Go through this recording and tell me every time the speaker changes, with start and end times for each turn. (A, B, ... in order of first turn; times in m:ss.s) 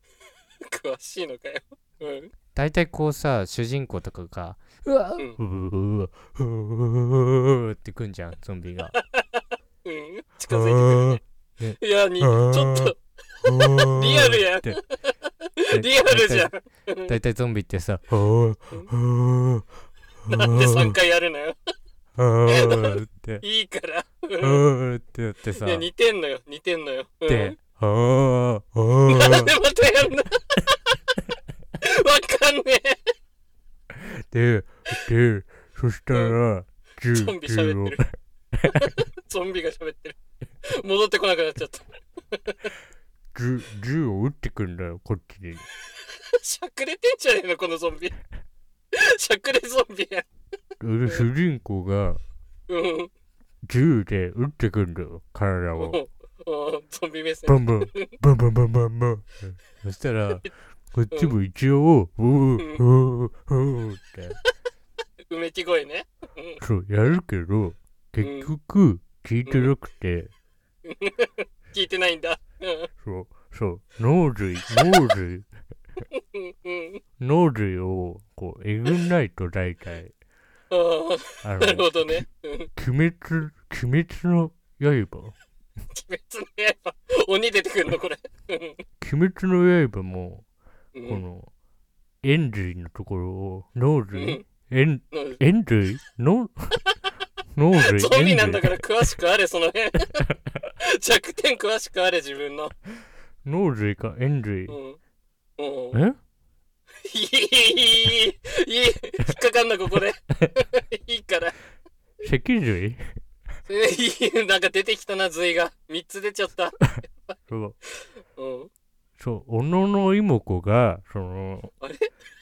0:00.6-0:02.3 A
0:02.5-0:09.0 B
0:09.0-0:11.2 A
0:10.5-0:14.8 B
0:11.8-0:17.1 A
0:15.7-0:16.5 B
0:17.1-0:19.7 B
0:20.2-0:20.9 B
0:20.3-0:21.6 A
0:22.2-0:23.4 B
0:22.4-0:24.6 A
0:24.4-0:25.9 B
0:25.6-0:27.6 A
0:27.3-0:29.5 B
0:29.0-0:31.0 A
0:31.8-0:33.1 A
0:33.9-0:38.1 B
0:37.1-0:38.0 A
0:38.6-0:40.2 A
0:40.7-0:42.7 A
0:43.3-0:45.6 B
0:46.4-0:48.2 A
0:48.9-0:50.2 A
0:50.8-0:52.2 B
0:52.7-0:53.1 A
0:53.6-0:56.0 B
0:55.8-0:58.2 A
0:57.5-1:04.4 B
1:01.1-1:01.4 A
1:05.3-1:06.6 A
1:06.6-1:10.3 B
1:08.2-1:08.5 A
1:09.4-1:09.7 A
1:10.8-1:12.9 A
1:13.0-1:15.5 B
1:16.1-1:17.0 A
1:17.2-1:20.1 B
1:20.7-1:22.7 A
1:21.4-1:22.2 B
1:22.8-1:25.3 B
1:25.9-1:28.8 A
1:29.0-1:30.4 B
1:30.9-1:31.2 A
1:31.1-1:31.5 B
1:32.2-1:36.8 B
1:34.1-1:34.4 A
1:35.1-1:35.4 A
1:37.5-1:38.8 B
1:37.8-1:40.3 A
1:40.8-1:42.7 A
1:43.4-1:44.8 B
1:44.7-1:45.0 A
1:45.6-1:46.0 A
1:45.9-1:46.2 B
1:47.0-1:51.6 A
1:52.2-1:53.0 B
1:53.6-1:57.3 A
1:57.5-1:57.8 B
1:57.9-1:58.7 A
1:59.2-2:01.7 B
2:01.8-2:02.1 A